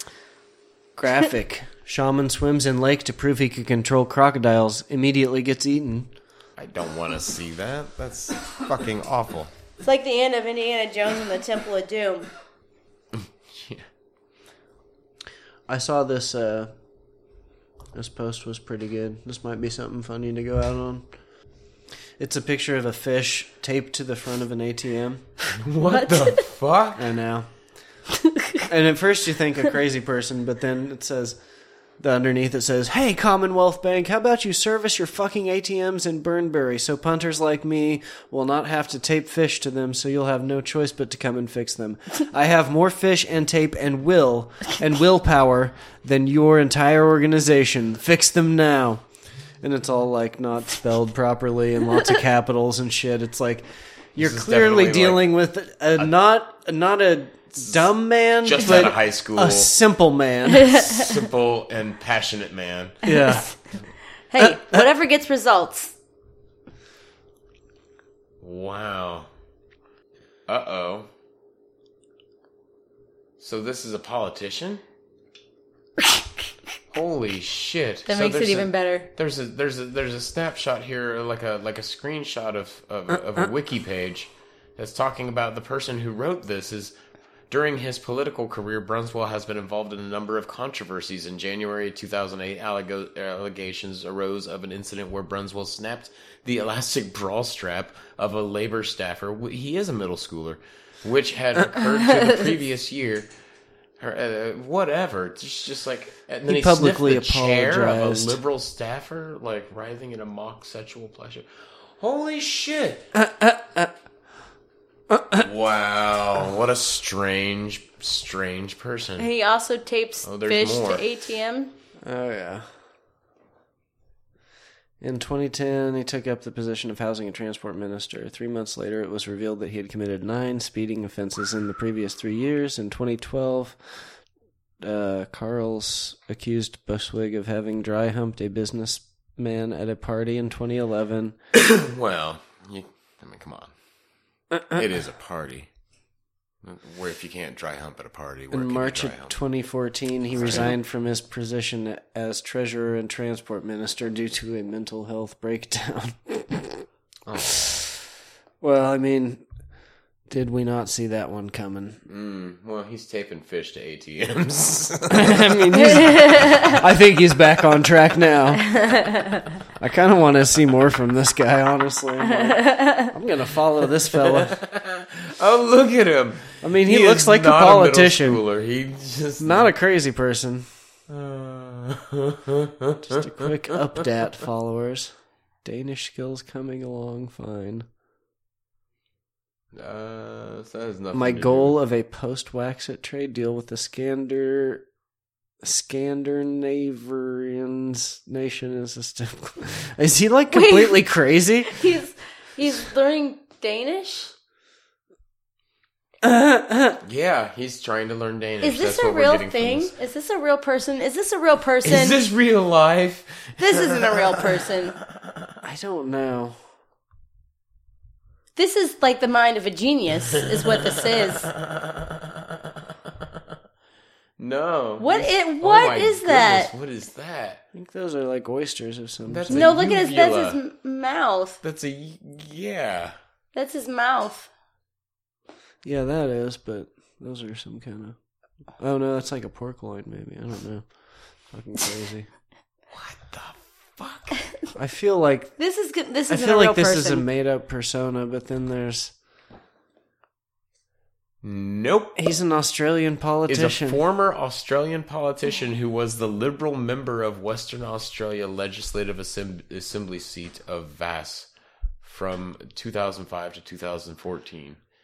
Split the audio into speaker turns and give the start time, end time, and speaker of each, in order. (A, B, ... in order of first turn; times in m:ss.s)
0:01.0-0:06.1 A
0:06.6-0:09.5 B
0:09.8-0:12.3 C
0:13.1-0:13.8 B
0:15.7-0:16.7 A
0:17.9-0:21.1 A
0:22.2-0:25.3 A
0:25.6-0:27.0 B
0:25.9-0:26.4 C
0:27.0-0:27.5 A
0:28.7-0:31.4 A
0:31.9-0:49.0 A
0:49.6-1:00.7 A
0:54.2-0:55.4 B
0:58.4-0:59.7 B
1:00.6-1:01.2 C
1:00.7-1:03.0 B
1:03.0-1:03.5 A
1:03.0-1:03.5 C
1:04.3-1:05.9 C
1:04.4-1:04.8 A
1:08.4-1:09.3 B
1:10.5-1:11.1 B
1:13.4-1:14.8 B
1:16.9-1:26.9 B
1:18.0-1:19.1 C
1:27.5-1:43.3 B
1:44.0-1:53.1 B
1:46.5-1:48.4 A
1:53.1-1:53.9 A
1:55.3-1:59.3 B
1:59.2-2:01.7 C
2:00.2-2:01.0 B
2:02.0-2:02.6 A
2:05.0-2:13.8 A
2:14.8-2:21.4 A
2:21.5-2:23.7 B
2:24.7-2:25.7 B
2:26.6-2:29.4 B
2:28.5-2:36.8 A
2:30.3-2:30.7 B
2:37.2-2:37.8 B
2:38.6-2:39.4 A
2:40.3-2:42.0 A
2:42.1-2:45.4 B
2:45.1-2:48.7 A
2:45.9-2:46.7 C
2:48.7-2:49.4 C
2:49.8-2:54.6 A
2:52.3-2:53.1 C
2:54.1-2:59.7 B
2:56.6-2:58.4 A
2:59.4-3:00.7 A
3:01.1-3:04.0 B
3:03.0-3:07.8 A
3:09.7-3:11.8 B
3:11.1-3:14.8 A
3:15.6-3:21.8 A
3:20.5-3:21.0 C
3:21.7-3:24.3 C
3:26.2-3:27.0 A
3:27.0-3:29.9 B
3:28.6-3:32.2 C
3:31.8-3:34.4 B
3:33.6-3:35.0 C
3:35.6-3:36.6 A
3:38.6-3:41.5 C
3:40.5-3:43.2 B
3:44.4-3:47.6 B
3:45.0-3:46.7 C
3:47.7-3:49.7 A
3:49.2-3:50.6 B
3:49.5-3:51.6 C
3:51.6-3:53.1 B
3:53.5-3:54.5 C
3:55.8-3:58.2 A
3:58.8-4:02.3 A
4:02.9-4:04.4 B
4:04.8-4:05.5 A
4:05.6-4:07.2 C
4:06.3-4:09.1 A
4:11.4-4:12.2 B
4:12.2-4:14.0 A
4:13.5-4:21.5 B
4:22.0-4:24.8 B